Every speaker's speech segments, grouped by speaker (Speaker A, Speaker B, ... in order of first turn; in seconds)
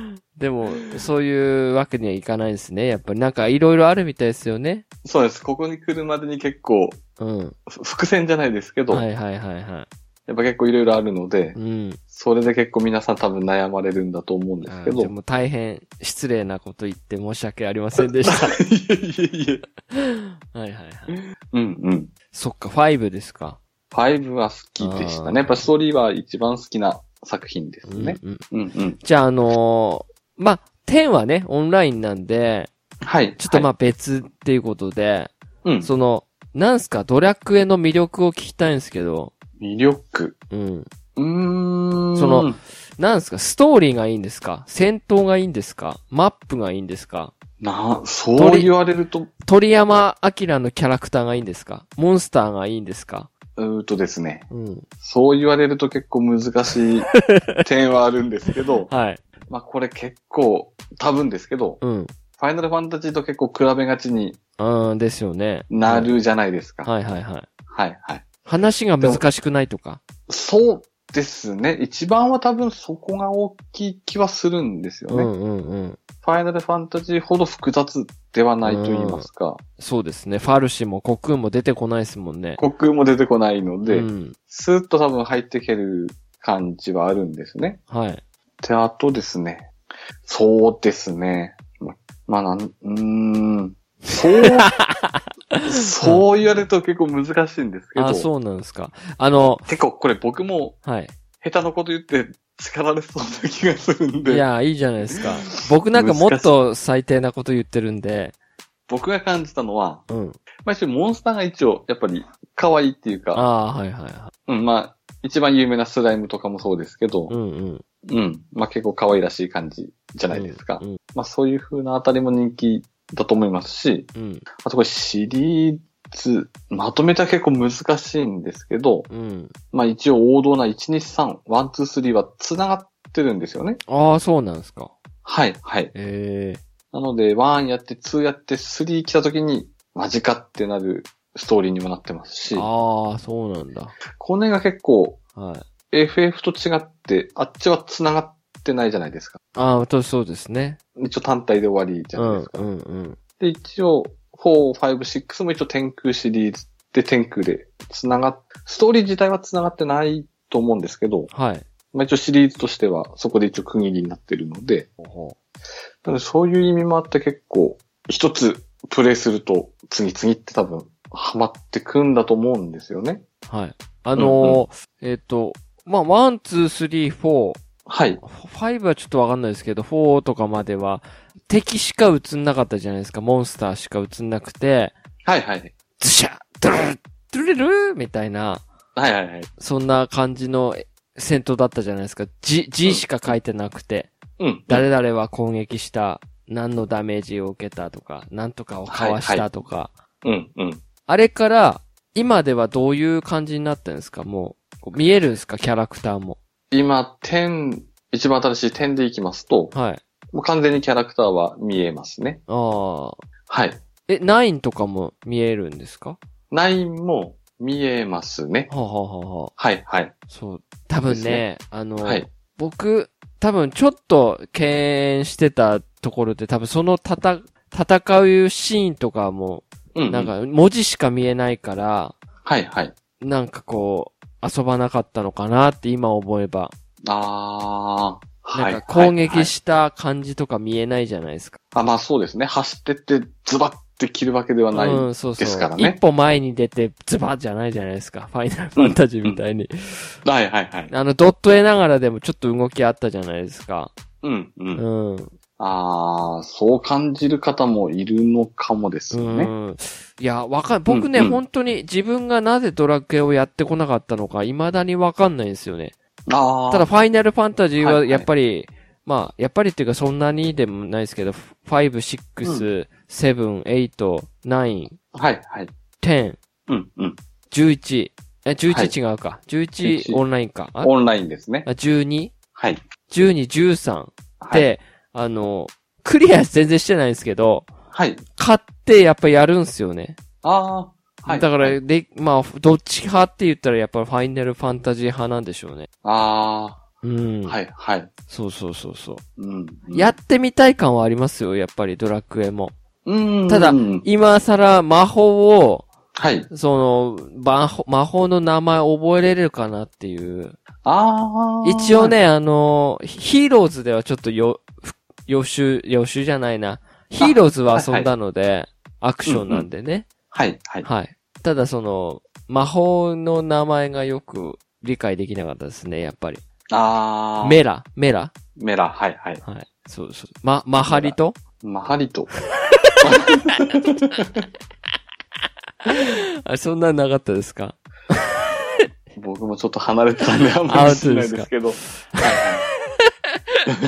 Speaker A: 0.3-4.8, 7.2-7.5, 8.9-9.9, 11.6-12.0, 14.6-18.6, 19.9-21.2, 22.3-23.6, 24.8-25.7, 27.9-28.4, 29.0-32.7, 33.4-39.3, 40.5-40.9, 42.1-47.3, 48.4-48.7, 49.4-53.3, 54.5-54.9, 57.1-57.6, 58.9-59.2, 61.8-62.1, 64.6-66.2, 66.8-67.5, 68.5-70.0, 75.1-76.0, 78.6-79.3, 79.8-82.6, 83.9-84.4, 87.9-88.2, 94.6-96.3, 98.0-99.7, 100.8-101.1, 104.3-108.3, 110.1-110.4, 113.3-114.3, 117.3-117.8, 120.3-121.0, 124.2-124.5, 129.1-129.5, 133.9-134.9, 135.9-136.6, 142.5-144.0, 145.3-145.7, 149.6-150.8, 152.2-153.2, 161.3-161.7, 165.0-165.4, 173.5-177.6, 178.2-184.9, 186.0-188.7, 189.6-194.1, 194.7-199.9, 201.1-206.4, 209.7-210.0, 212.5-213.2, 214.1-216.2, 218.7-219.5, 220.3-232.2, 233.2-236.7, 238.6-241.6, 244.7-250.2, 250.9-253.9, 254.8-255.3, 259.1-265.9, 266.7-275.0, 276.0-276.4, 277.5-280.9, 281.6-282.3, 283.1-287.7, 288.4-290.2, 291.3-295.9, 297.0-297.6, 298.3-299.2, 299.9-302.7, 303.5-305.9, 306.5-310.6, 311.6-320.1, 320.8-326.4, 327.4-328.3, 329.4-331.4, 332.6-333.3, 335.9-338.6, 340.7-342.3, 342.9-343.6
Speaker B: 5.0-7.0, 7.7-9.1, 10.3-11.6, 12.1-15.1, 18.0-19.6, 21.1-22.1, 23.9-29.0, 33.0-33.7, 35.6-35.9, 39.6-40.4, 41.2-42.6, 47.6-49.3, 53.6-54.5, 55.0-57.1, 57.6-58.9, 59.5-61.8, 62.4-64.4, 65.7-66.9, 67.7-68.3, 69.0-69.2, 70.3-75.3, 76.2-79.6, 82.6-87.8, 88.6-89.7, 90.2-94.7, 95.7-98.3, 99.7-100.8, 101.4-104.5, 105.2-106.5, 108.9-110.0, 110.6-113.4, 114.5-117.3, 118.1-124.1, 124.6-129.1, 129.7-133.8, 135.2-135.9, 136.9-142.7, 144.2-145.2, 145.9-149.4, 151.0-152.6, 153.4-161.3, 161.9-164.9, 166.0-173.2, 174.2-174.6, 177.9-178.2, 185.3-185.8, 189.0-189.5, 194.4-194.9, 198.9-199.5, 200.2-200.8, 206.7-209.7, 210.3-212.4, 213.5-213.8, 216.5-218.7, 219.6-220.1, 221.1-221.5, 222.0-222.3, 229.9-230.3, 232.4-232.9, 237.1-239.5, 241.7-246.0, 248.8-249.4, 250.2-250.9, 254.2-254.8, 255.6-259.5, 260.9-261.4, 266.3-266.9, 267.8-268.3, 275.1-275.7, 276.7-277.2, 278.7-278.9, 279.8-280.2, 280.8-281.7, 282.6-282.8, 284.4-284.7, 287.9-288.2, 290.4-291.8, 296.0-296.8, 297.5-298.1, 299.4-300.1, 303.1-304.1, 306.2-306.5, 310.9-312.2, 317.2-318.1, 319.3-319.7, 320.3-320.9, 326.7-327.6, 328.6-329.4, 330.9-332.3, 333.0-333.9, 339.2-342.6